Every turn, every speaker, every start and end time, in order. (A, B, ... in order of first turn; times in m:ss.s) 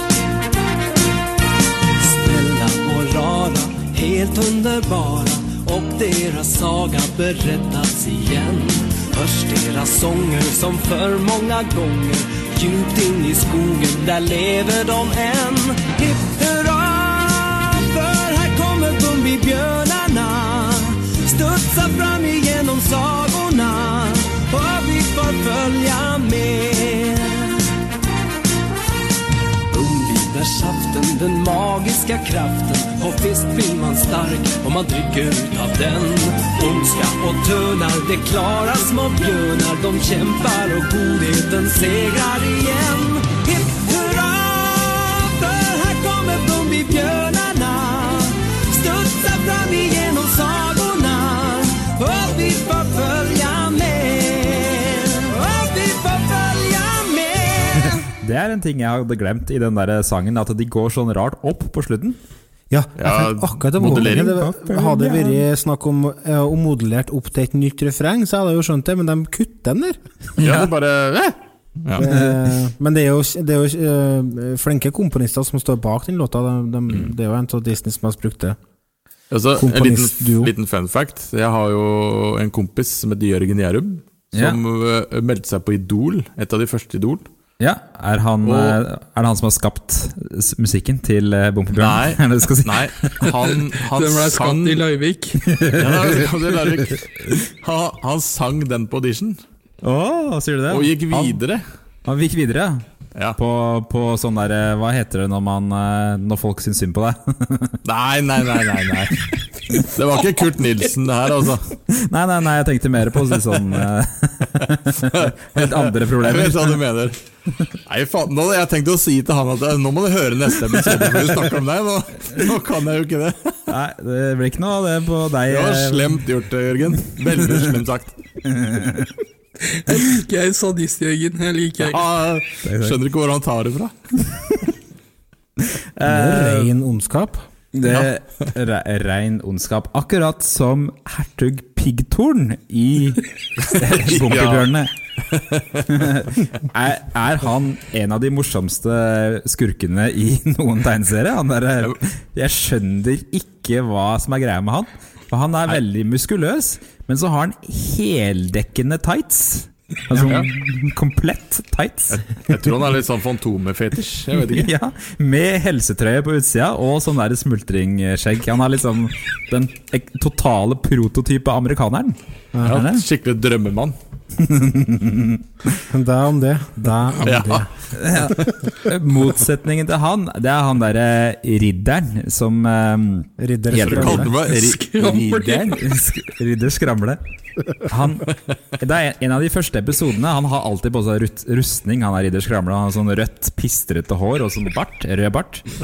0:02.0-0:27.5 A
0:29.7-0:58.1 A
0:58.2-1:02.2 B
1:02.7-1:10.0 C
1:03.0-1:04.4 D
1:03.8-1:05.4 B
1:10.4-1:12.1 D
1:12.0-1:18.6 C
1:12.0-1:12.4 B
1:19.3-1:27.3 D
1:19.6-1:20.5 C
1:24.3-1:24.6 B
1:27.6-1:33.3 B
1:28.4-1:28.8 D
1:31.8-1:34.9 D
1:33.9-1:35.5 E
1:35.5-1:36.1 B
1:35.7-1:39.4 D
1:39.8-1:41.4 B
1:40.7-1:41.6 D
1:42.1-1:47.8 B
1:47.8-1:51.8 D
1:51.9-1:56.8 B
1:55.0-1:57.2 D
1:57.9-2:03.6 D
2:03.7-2:06.2 B
2:05.5-2:08.2 D
2:07.2-2:07.7 B
2:08.4-2:09.1 B
2:09.7-2:12.0 E
2:11.9-2:13.9 D
2:12.6-2:13.0 B
2:15.8-2:16.7 B
2:16.0-2:17.4 C
2:17.7-2:24.9 B
2:17.9-2:18.1 D
2:23.7-2:24.7 D
2:25.3-2:25.9 D
2:25.9-2:42.2 B
2:40.1-2:40.5 D
2:42.1-2:44.7 D
2:44.3-2:53.1 B
2:52.6-2:54.0 D
2:54.4-2:55.4 B
2:55.9-2:57.7 C
2:57.2-2:57.7 D
2:58.0-3:04.3 B
2:58.2-2:58.6 D
3:03.4-3:04.3 C
3:03.8-3:05.6 D
3:04.4-3:05.8 E
3:05.0-3:07.2 B
3:07.8-3:15.8 B